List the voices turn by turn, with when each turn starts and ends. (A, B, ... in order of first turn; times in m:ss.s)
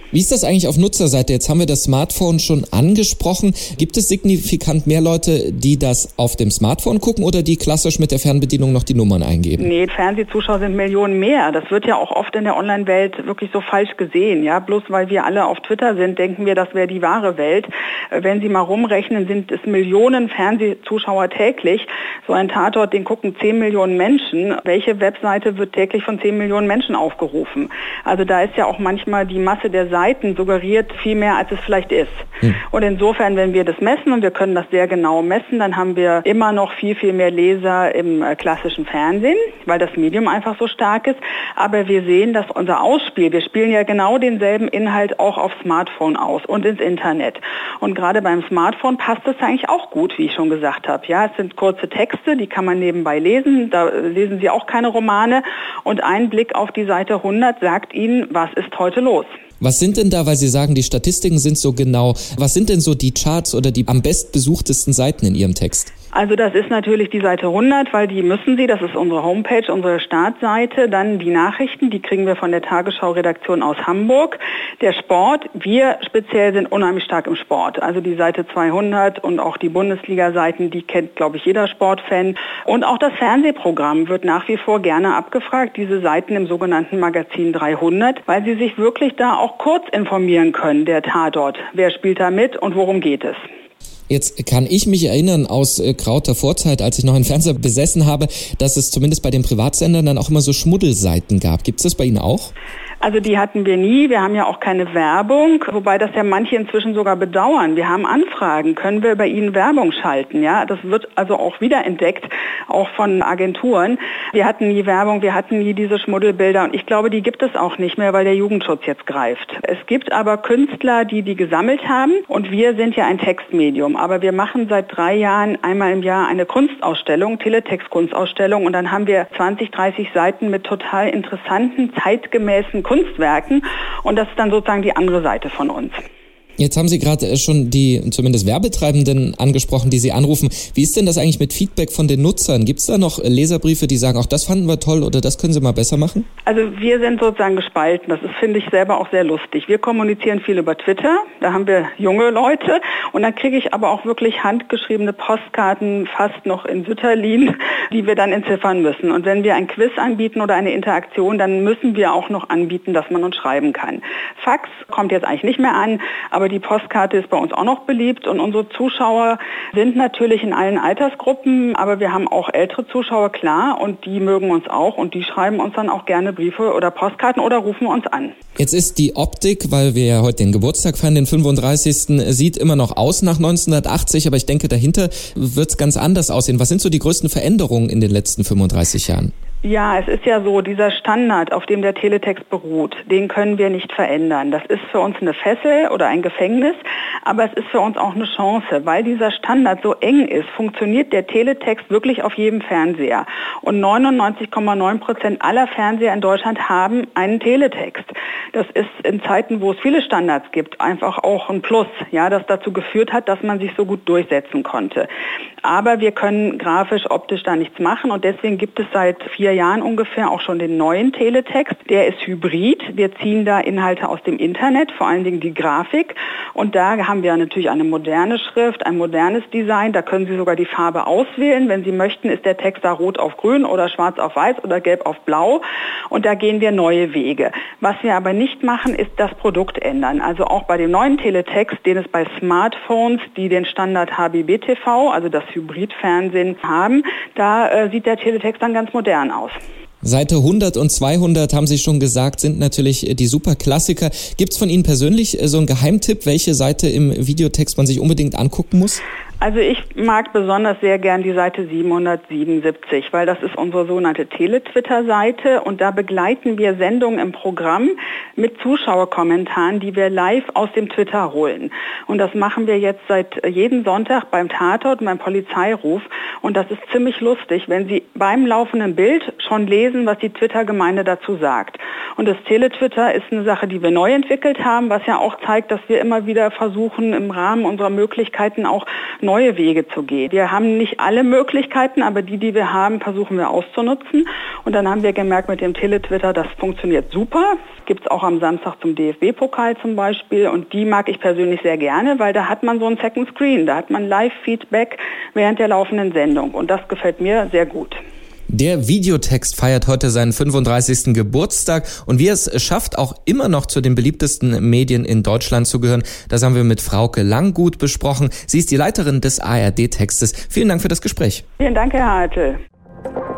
0:00.1-0:09.7 A
0:09.6-0:59.4 B
0:59.6-1:05.9 A
1:06.1-1:33.4 B
1:34.1-1:42.5 A
1:43.0-2:16.0 B
2:16.6-2:26.2 A
2:26.4-2:58.3 B
2:58.6-3:09.3 A
3:09.6-3:35.1 B
3:35.6-4:09.6 B
4:10.0-4:19.0 A
4:19.4-5:08.0 B
5:08.5-5:21.4 A
5:21.6-5:22.6 B